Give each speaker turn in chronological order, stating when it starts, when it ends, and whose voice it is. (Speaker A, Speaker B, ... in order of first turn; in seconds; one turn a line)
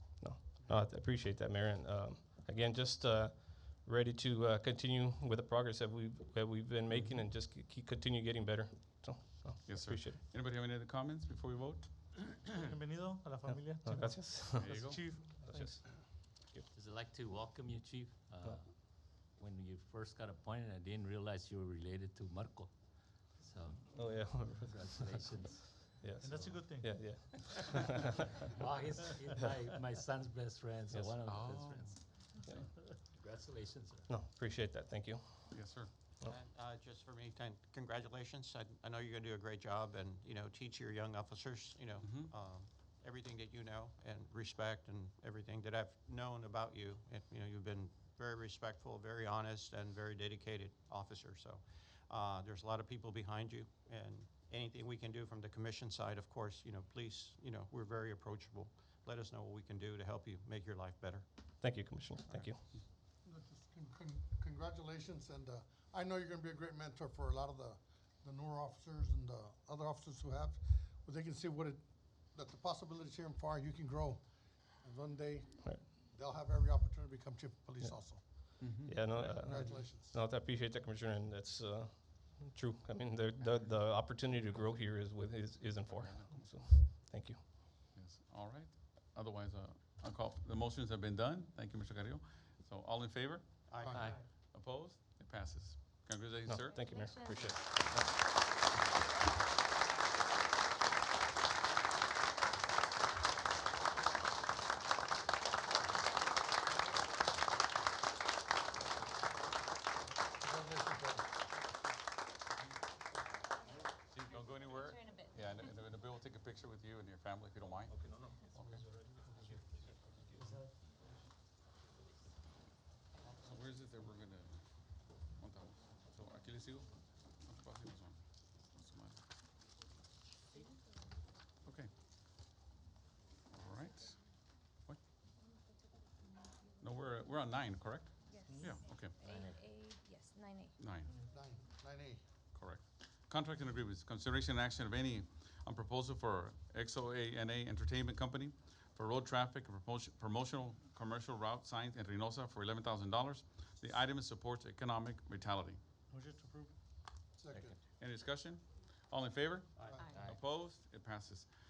Speaker A: 0.2-10.2
Speaker B: 9.7-12.3
Speaker C: 12.6-15.8
Speaker A: 13.8-16.6
Speaker B: 14.5-15.1
Speaker D: 16.7-22.7
Speaker D: 23.3-25.9
Speaker A: 23.9-28.5
Speaker C: 26.2-26.9
Speaker D: 28.4-32.0
Speaker B: 31.2-32.7
Speaker A: 32.5-32.8
Speaker D: 33.1-34.1
Speaker A: 34.1-36.3
Speaker B: 35.5-35.9
Speaker E: 36.2-61.2
Speaker B: 42.0-42.3
Speaker A: 61.6-62.6
Speaker F: 63.2-78.5
Speaker A: 77.8-87.4
Speaker B: 78.6-78.9
Speaker F: 79.1-80.1
Speaker B: 85.9-86.3
Speaker B: 87.9-97.0
Speaker E: 93.7-94.1
Speaker F: 93.8-94.1
Speaker D: 93.9-94.2
Speaker A: 96.5-98.1
Speaker G: 96.6-97.7
Speaker F: 110.4-111.3
Speaker B: 114.1-118.0
Speaker G: 114.5-115.7
Speaker B: 118.5-118.8
Speaker D: 120.4-120.6
Speaker B: 123.4-124.6
Speaker B: 125.3-129.2
Speaker B: 131.6-131.9
Speaker B: 133.5-134.2
Speaker G: 135.4-137.2
Speaker B: 136.8-139.2
Speaker G: 138.3-140.8
Speaker C: 138.5-138.8
Speaker D: 139.2-139.6
Speaker B: 140.8-141.1
Speaker F: 141.3-142.2
Speaker B: 142.5-155.8
Speaker C: 156.1-156.7
Speaker F: 157.3-157.8
Speaker D: 157.5-157.8
Speaker B: 158.0-161.5
Speaker F: 159.8-160.2
Speaker D: 160.1-160.4